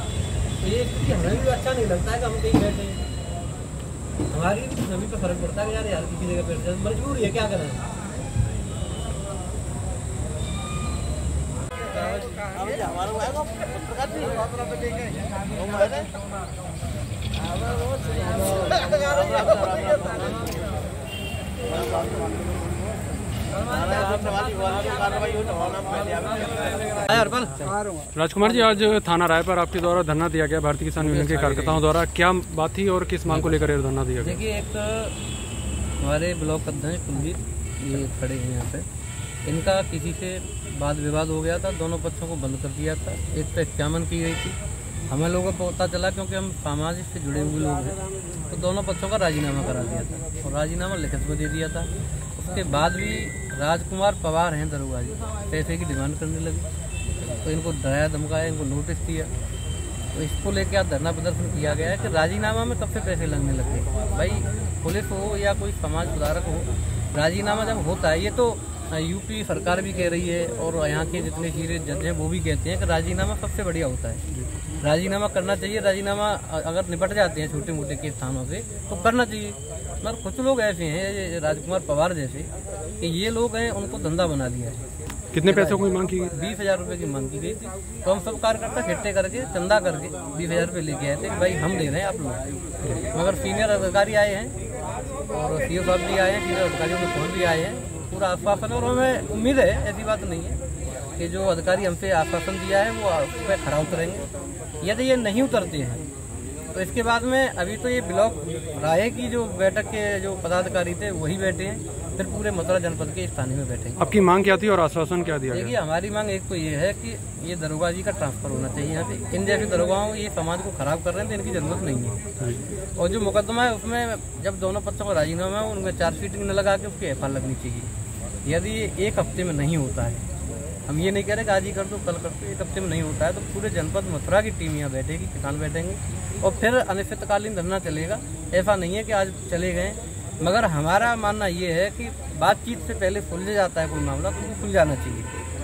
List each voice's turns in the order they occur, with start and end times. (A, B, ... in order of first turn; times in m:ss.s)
0:00.6-0:03.0 A
0:04.3-0:07.8 A
0:19.3-0:20.3 A
0:23.5-0:27.8 A
0:28.1-0:34.4 B
0:31.0-0:31.8 A
0:33.3-0:33.6 A
0:34.2-0:35.2 A
0:36.0-0:38.9 A
0:39.4-0:44.6 A
0:45.1-0:56.7 A
0:57.4-0:59.3 A
1:00.1-1:14.2 A
1:14.8-1:24.8 A
1:25.3-1:26.3 B
1:25.4-1:32.4 A
1:33.1-1:34.6 A
1:35.3-1:40.6 A
1:41.2-1:44.3 A
1:44.8-1:46.0 A
1:46.7-1:54.0 A
1:54.0-1:55.8 B
1:55.5-2:02.2 A
2:03.0-2:07.9 A
2:08.4-2:10.2 A
2:10.9-2:25.3 A